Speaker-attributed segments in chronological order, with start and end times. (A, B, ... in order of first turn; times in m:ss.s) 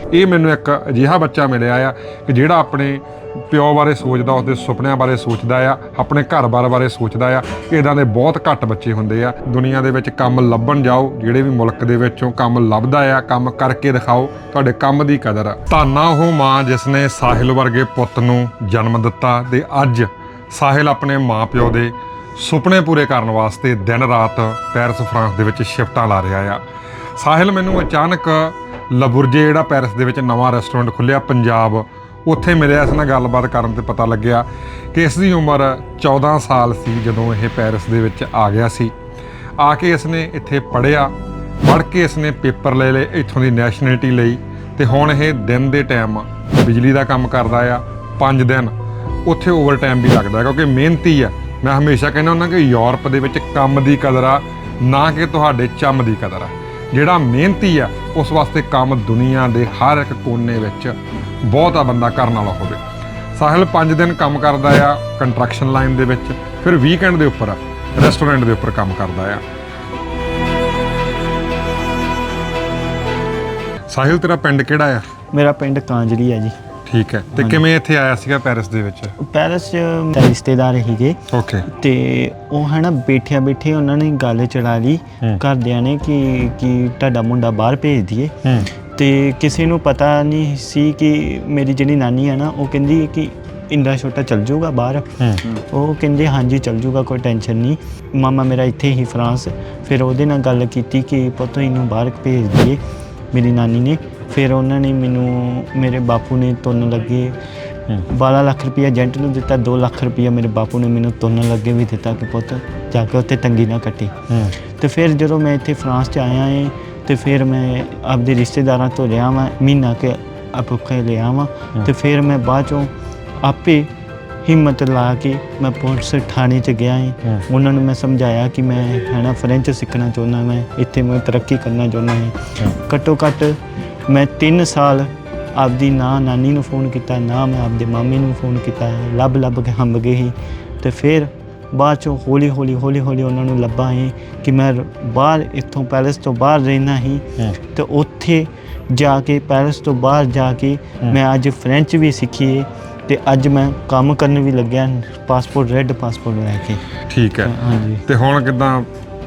0:00.1-0:26.6 A
0:27.2-0:38.9 A
0:39.6-0:41.1 A
0:41.6-0:48.7 A
0:49.3-1:01.0 A
1:01.5-1:02.8 A
1:03.4-1:09.4 A
1:13.9-1:15.0 A
1:15.3-1:16.6 B
1:16.9-1:19.2 A
1:17.4-1:17.6 B
1:19.2-1:28.4 B
1:21.3-1:21.7 A
1:28.4-1:28.7 A
1:29.0-1:42.8 B
1:43.3-1:47.4 B
1:48.1-2:03.9 B
1:54.3-1:54.6 A
2:04.4-2:36.8 B
2:37.1-2:37.6 A
2:37.4-2:38.0 B
2:38.1-2:38.9 A